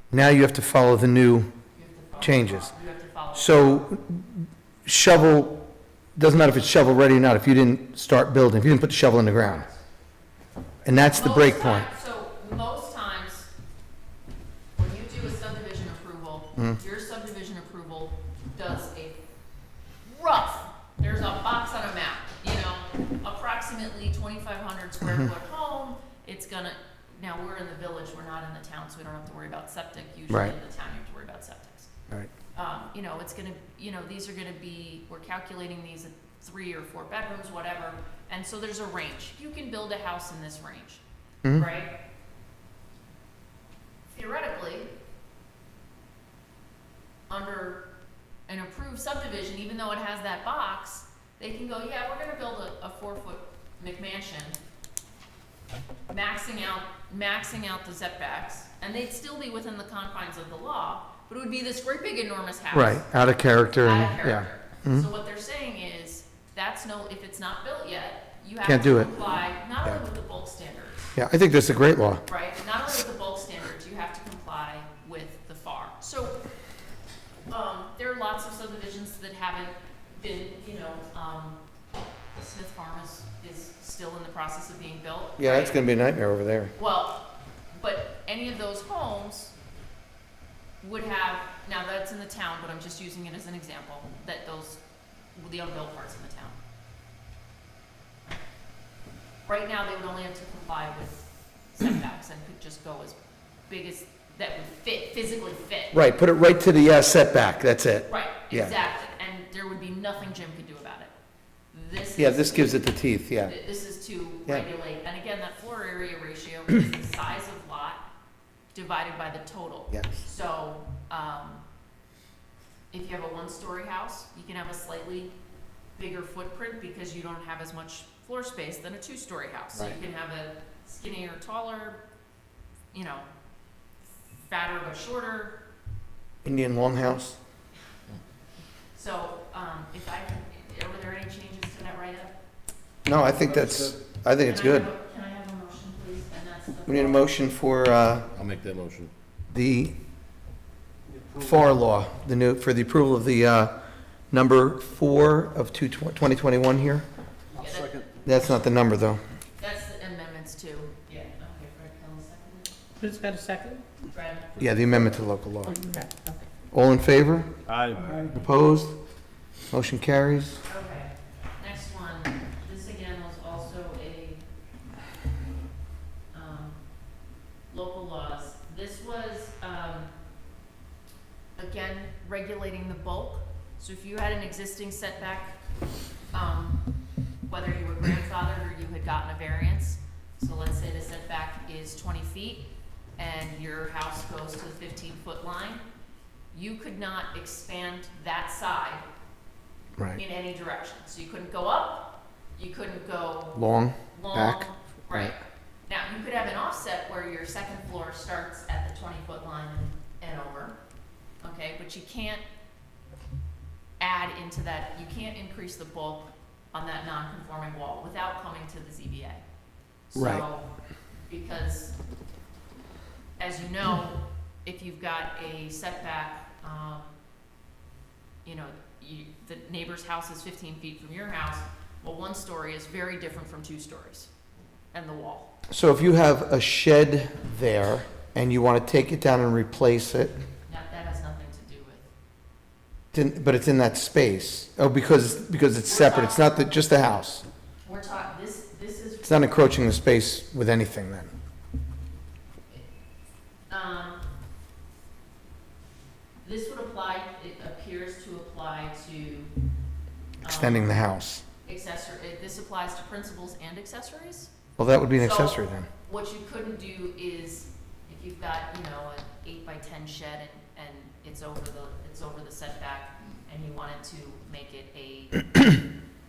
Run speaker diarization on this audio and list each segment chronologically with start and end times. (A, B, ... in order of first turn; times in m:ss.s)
0:00.1-0:01.5 A
0:01.7-0:03.6 B
0:02.2-0:02.7 A
0:03.3-0:05.6 A
0:06.2-0:09.7 A
0:10.8-0:11.9 A
0:11.1-0:13.5 B
0:14.8-0:19.2 B
0:20.0-0:31.9 B
0:30.3-0:30.5 A
0:32.6-0:41.9 B
0:44.1-0:44.9 B
0:47.3-0:47.8 B
0:48.5-0:54.6 B
0:56.1-1:03.1 B
1:02.7-1:05.1 A
1:03.8-1:11.0 B
1:08.7-1:09.1 A
1:11.2-1:12.2 A
1:12.3-1:16.4 B
1:17.5-1:21.6 B
1:22.4-1:25.8 B
1:25.4-1:26.7 A
1:26.8-1:29.5 B
1:30.8-1:34.8 B
1:35.4-1:36.6 B
1:39.5-1:46.0 B
1:45.9-1:48.8 A
1:48.1-1:51.1 B
1:51.7-1:58.0 B
1:52.2-1:53.6 A
1:58.7-2:01.6 B
2:02.9-2:05.3 B
2:06.0-2:12.0 B
2:12.9-2:13.3 B
2:14.3-2:15.6 B
2:16.4-2:17.4 A
2:18.9-2:22.4 B
2:23.0-2:24.9 A
2:23.4-2:23.9 C
2:24.4-2:27.3 B
2:26.9-2:28.3 A
2:28.3-2:29.1 C
2:29.5-2:29.9 A
2:31.1-2:31.6 C
2:31.4-2:33.7 A
2:34.3-2:37.0 A
2:37.5-2:38.1 C
2:37.6-2:38.3 B
2:38.2-2:39.2 A
2:39.6-2:42.7 B
2:43.0-2:43.8 D
2:44.1-2:44.6 B
2:44.6-2:45.8 A
2:45.6-2:46.5 D
2:46.7-2:47.5 A
2:47.7-2:48.3 C
2:48.0-2:48.3 D
2:48.3-2:48.9 A
2:49.7-2:50.6 A
2:50.7-2:54.5 B
2:56.3-2:56.8 B
2:57.7-3:00.1 B
3:01.6-3:05.6 B
3:06.3-3:06.9 B
3:07.4-3:15.8 B
3:16.5-3:19.0 B
3:20.1-3:30.8 B
3:23.6-3:25.3 A
3:31.4-3:32.4 B
3:34.0-3:39.4 B
3:40.1-3:40.7 B
3:40.2-3:40.4 A
3:41.3-3:42.0 B
3:43.4-3:47.1 B
3:48.4-3:54.3 B
3:54.9-3:55.5 B
3:55.7-4:00.4 A
4:00.7-4:02.1 B
4:03.1-4:07.4 A
4:05.8-4:06.5 B
4:07.8-4:09.6 B
4:09.2-4:11.3 A
4:13.7-4:14.2 B
4:16.4-4:19.5 B
4:20.4-4:20.9 B
4:20.4-4:21.4 A
4:21.6-4:24.5 B
4:24.8-4:25.9 A
4:25.1-4:35.7 B